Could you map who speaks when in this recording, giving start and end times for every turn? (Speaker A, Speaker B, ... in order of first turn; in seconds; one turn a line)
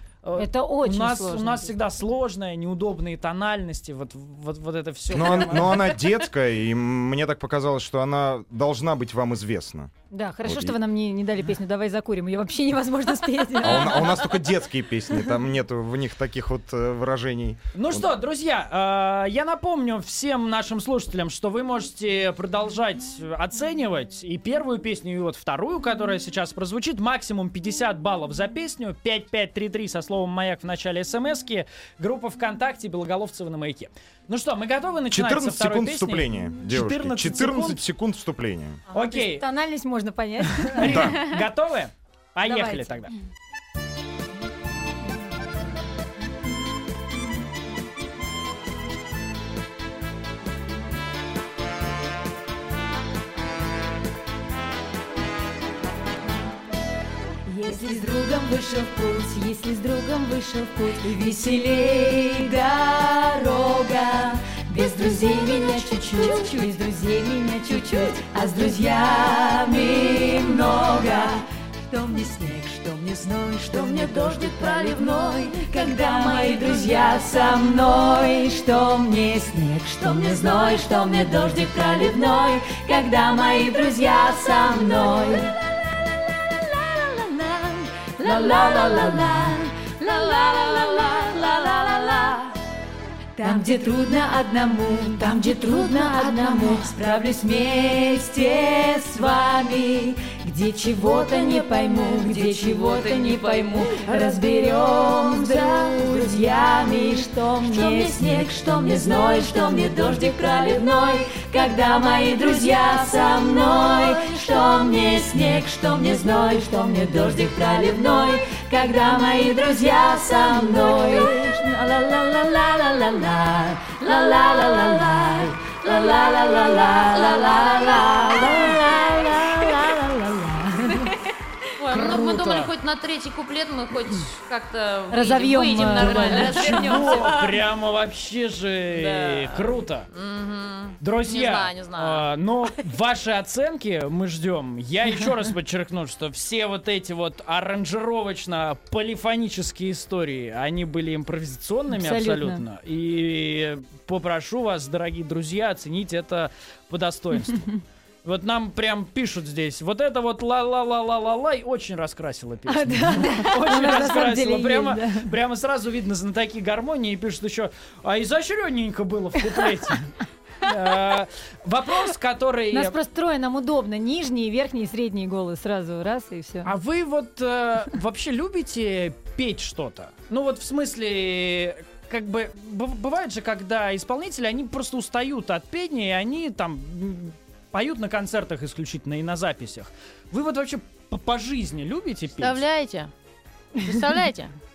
Speaker A: 0.2-6.0
Speaker B: 0.4-1.7
Speaker C: 5.1-9.9
Speaker B: 10.1-14.3
Speaker C: 10.4-10.8
Speaker C: 13.6-18.1
Speaker A: 17.7-37.8
Speaker C: 35.1-38.8
Speaker A: 38.9-39.5
Speaker B: 38.9-41.0
Speaker A: 40.5-43.1
Speaker C: 40.8-41.2
Speaker D: 42.5-42.8
Speaker D: 57.5-85.6
Speaker D: 86.5-92.5
Speaker D: 93.4-130.0
Speaker E: 124.3-124.8
Speaker E: 125.9-129.7
Speaker B: 128.4-128.8
Speaker B: 129.6-131.1
Speaker D: 130.9-131.2
Speaker E: 131.8-137.5
Speaker A: 131.9-132.7
Speaker B: 135.1-136.9
Speaker D: 136.0-137.4
Speaker A: 136.2-140.1
Speaker E: 138.9-142.3
Speaker A: 141.0-157.7
Speaker B: 151.9-152.6
Speaker A: 158.2-172.9
Speaker B: 162.7-165.3
Speaker B: 172.7-176.7
Speaker A: 176.6-192.6
Speaker E: 192.3-193.1
Speaker E: 193.8-194.5